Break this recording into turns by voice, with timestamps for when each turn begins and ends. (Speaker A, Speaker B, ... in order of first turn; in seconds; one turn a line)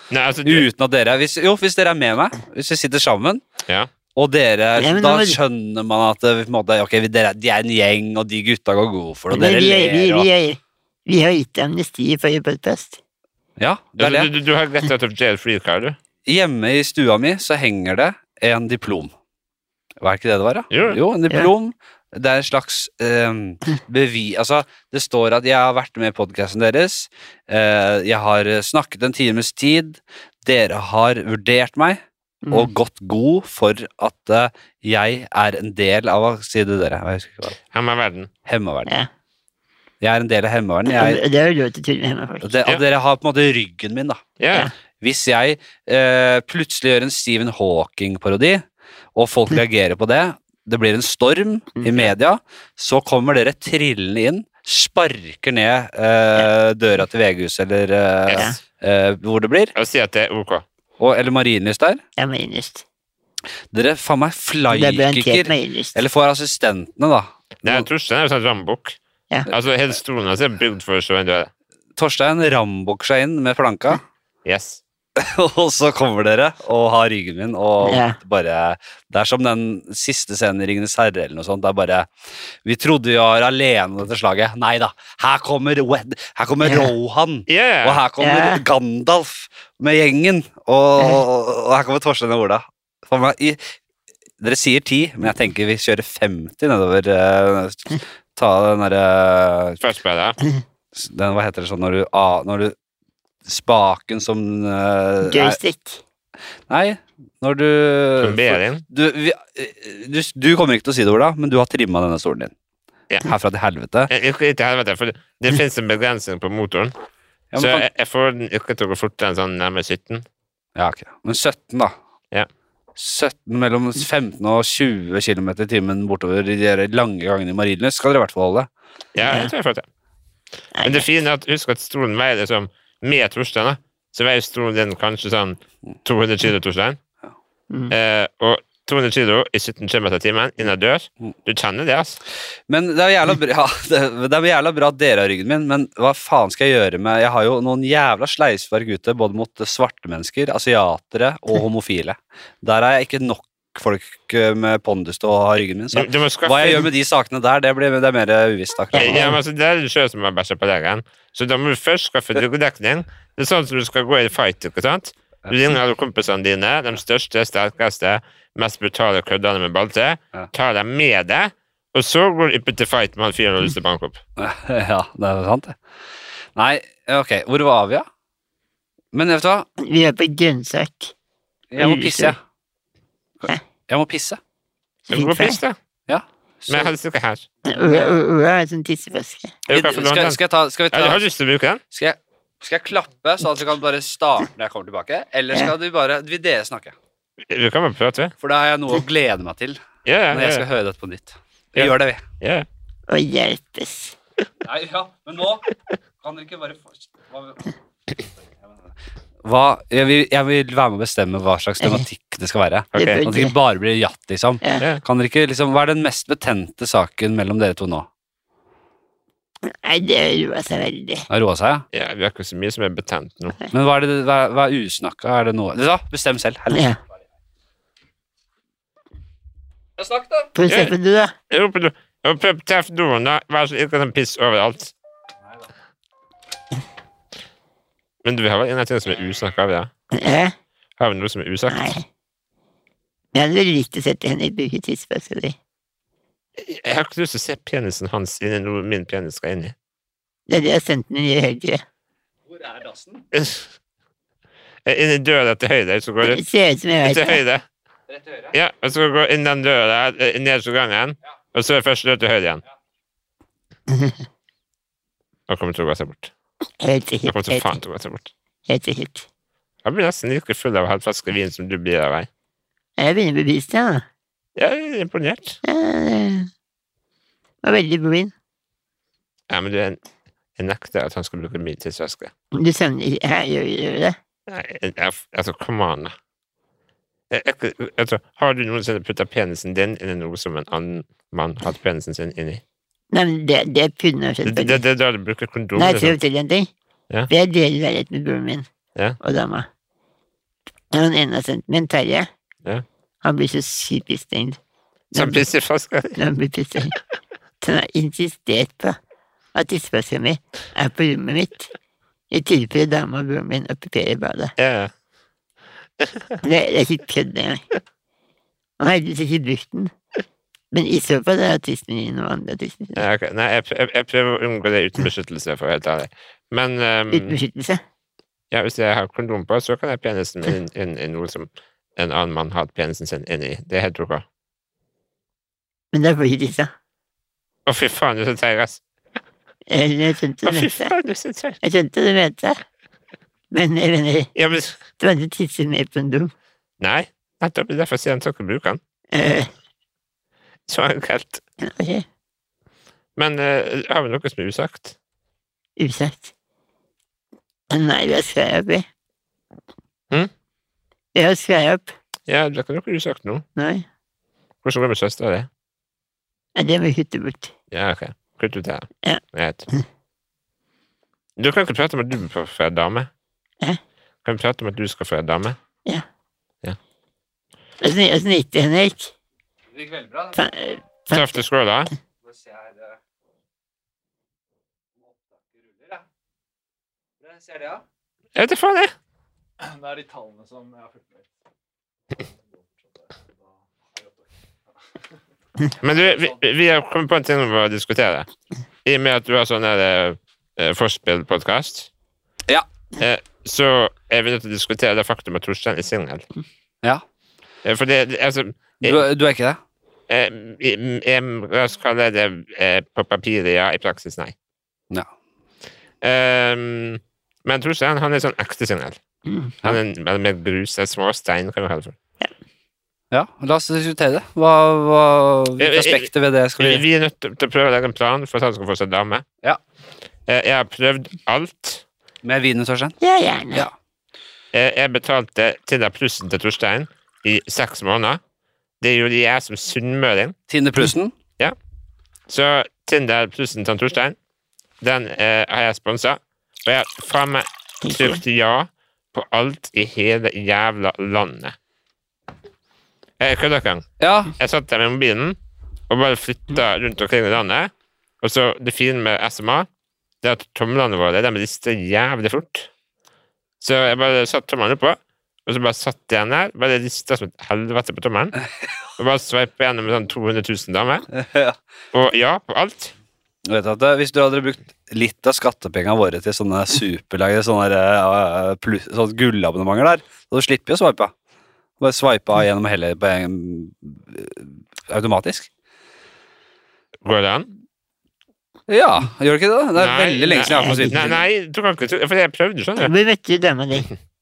Speaker A: 0.1-0.7
Speaker B: 0.5-3.4
Speaker B: 4.2-10.3
Speaker C: 4.8-5.4
Speaker C: 9.3-13.0
Speaker B: 13.6-14.3
Speaker A: 14.0-16.0
Speaker B: 16.3-19.1
Speaker B: 20.0-37.6
Speaker A: 20.7-21.0
Speaker C: 32.4-32.7
Speaker A: 37.7-38.3
Speaker B: 38.5-38.9
Speaker B: 40.0-41.2
Speaker C: 40.9-42.5
Speaker B: 42.4-44.2
Speaker A: 44.4-44.7
Speaker B: 45.0-59.7
Speaker A: 58.3-58.5
Speaker A: 59.8-60.6
Speaker B: 61.0-62.0
Speaker C: 62.2-62.9
Speaker B: 63.7-67.9
Speaker C: 64.7-66.0
Speaker A: 67.6-69.0
Speaker A: 69.5-71.5
Speaker B: 72.0-74.0
Speaker A: 74.5-74.8
Speaker B: 75.2-82.1
Speaker C: 77.8-78.2
Speaker B: 82.6-93.7
Speaker C: 86.6-86.9
Speaker A: 87.5-88.0
Speaker C: 88.2-88.6
Speaker C: 91.0-91.2
Speaker B: 94.4-99.8
Speaker A: 99.8-100.4
Speaker B: 100.9-102.8
Speaker B: 103.5-105.6
Speaker C: 105.2-106.0
Speaker B: 106.7-112.5
Speaker A: 108.2-108.8
Speaker B: 113.2-114.1
Speaker A: 114.1-116.9
Speaker B: 117.5-117.9
Speaker A: 117.6-120.2
Speaker B: 120.8-121.9
Speaker B: 123.0-128.7
Speaker A: 129.2-129.8
Speaker C: 129.2-129.5
Speaker C: 130.8-131.1
Speaker A: 130.8-137.0
Speaker A: 137.9-142.2
Speaker B: 142.7-159.3
Speaker A: 155.9-156.9
Speaker C: 158.9-159.4
Speaker A: 159.0-174.2
Speaker B: 174.4-175.8
Speaker B: 176.6-178.1
Speaker B: 179.1-179.7
Speaker C: 179.8-181.1
Speaker B: 181.7-182.4
Speaker C: 181.8-182.4
Speaker B: 183.4-184.4
Speaker C: 185.1-185.6
Speaker A: 185.1-185.8
Speaker B: 186.1-186.9
Speaker A: 186.7-187.5
Speaker C: 187.7-189.6
Speaker A: 189.7-190.4
Speaker B: 189.7-191.2
Speaker A: 190.9-191.8
Speaker B: 191.9-197.0
Speaker A: 197.5-198.3
Speaker B: 198.4-202.2
Speaker A: 200.1-200.7
Speaker A: 201.8-202.7
Speaker C: 203.1-204.2
Speaker B: 204.6-205.7
Speaker B: 206.2-207.7
Speaker B: 209.4-218.1
Speaker A: 212.9-213.2
Speaker C: 212.9-213.5
Speaker C: 219.6-221.3
Speaker B: 221.3-221.8
Speaker A: 221.9-223.6
Speaker B: 223.7-226.9
Speaker C: 226.7-227.0
Speaker B: 230.0-230.5
Speaker C: 230.6-231.3
Speaker A: 230.7-230.9
Speaker A: 231.5-234.9
Speaker A: 238.2-239.9
Speaker C: 240.1-240.5
Speaker A: 241.0-241.9
Speaker C: 241.7-242.1
Speaker C: 243.3-245.6
Speaker A: 246.6-249.8
Speaker C: 250.5-251.8
Speaker B: 252.5-253.2
Speaker A: 253.3-253.7
Speaker A: 254.9-256.4
Speaker C: 256.2-257.4
Speaker A: 257.0-257.6
Speaker B: 258.1-258.6
Speaker A: 258.5-262.6
Speaker C: 263.9-264.2
Speaker A: 265.5-266.3
Speaker C: 266.8-267.7
Speaker A: 267.3-268.3
Speaker C: 268.7-269.3
Speaker A: 269.9-272.3
Speaker C: 273.0-274.0
Speaker A: 274.6-275.6
Speaker C: 275.6-276.5
Speaker C: 277.6-278.3
Speaker A: 279.5-280.0
Speaker A: 280.6-282.3
Speaker C: 282.5-284.2
Speaker A: 284.5-286.1
Speaker A: 287.3-292.6
Speaker C: 293.1-294.8
Speaker A: 294.5-296.2
Speaker C: 295.8-296.7
Speaker C: 297.3-298.7
Speaker C: 299.2-299.7
Speaker C: 300.9-302.3
Speaker C: 303.2-304.6
Speaker C: 305.1-305.5
Speaker A: 305.1-306.2
Speaker C: 306.2-306.9
Speaker C: 307.6-309.0
Speaker C: 309.5-311.7
Speaker C: 312.3-314.5
Speaker A: 314.6-314.9
Speaker A: 316.0-316.4
Speaker C: 316.4-317.6
Speaker C: 318.8-319.9
Speaker C: 320.7-323.1
Speaker A: 323.0-327.4
Speaker C: 327.1-327.8
Speaker A: 328.5-334.2
Speaker C: 335.9-336.7
Speaker A: 337.7-338.8
Speaker C: 339.7-340.9
Speaker A: 340.4-341.6
Speaker C: 341.6-342.6
Speaker C: 343.5-344.3
Speaker A: 344.4-344.8
Speaker C: 345.0-346.3
Speaker A: 346.8-348.8
Speaker C: 349.1-349.5
Speaker A: 350.7-351.4
Speaker C: 351.6-352.1
Speaker A: 353.2-354.9
Speaker C: 355.8-356.3
Speaker C: 357.7-358.9
Speaker C: 361.1-361.9
Speaker A: 362.3-363.4
Speaker C: 363.6-363.9
Speaker A: 364.6-365.5
Speaker C: 366.6-367.5
Speaker A: 367.7-369.7
Speaker C: 369.0-369.8
Speaker A: 371.4-373.1
Speaker A: 374.2-375.6
Speaker C: 377.8-379.1
Speaker B: 379.7-380.4
Speaker C: 380.4-381.4
Speaker A: 381.1-381.9
Speaker B: 382.2-383.0
Speaker B: 385.0-386.0
Speaker B: 387.2-387.8
Speaker A: 388.4-388.9
Speaker D: 389.6-391.3
Speaker D: 392.1-394.3
Speaker A: 395.8-398.3
Speaker A: 398.9-401.9
Speaker A: 403.0-406.2
Speaker A: 407.6-409.0
Speaker B: 408.8-409.6
Speaker A: 410.1-414.3
Speaker A: 416.0-419.0
Speaker A: 419.6-422.0
Speaker B: 423.1-426.8
Speaker A: 425.6-429.2
Speaker A: 430.3-431.8
Speaker B: 432.2-433.0
Speaker C: 433.0-433.7
Speaker A: 434.5-438.2
Speaker A: 438.8-440.4
Speaker B: 440.5-441.1
Speaker A: 442.3-444.2
Speaker A: 444.8-451.6
Speaker C: 447.8-448.2
Speaker A: 453.2-455.4
Speaker B: 454.0-454.3
Speaker A: 455.9-457.7
Speaker A: 458.2-459.7
Speaker A: 460.2-462.7
Speaker A: 463.6-468.4
Speaker A: 469.0-471.1
Speaker B: 471.1-471.6
Speaker A: 471.9-472.9
Speaker B: 473.4-481.1
Speaker B: 481.8-485.5
Speaker A: 487.0-487.5
Speaker B: 488.7-491.2
Speaker A: 489.8-492.9
Speaker C: 490.6-491.0
Speaker C: 492.8-493.9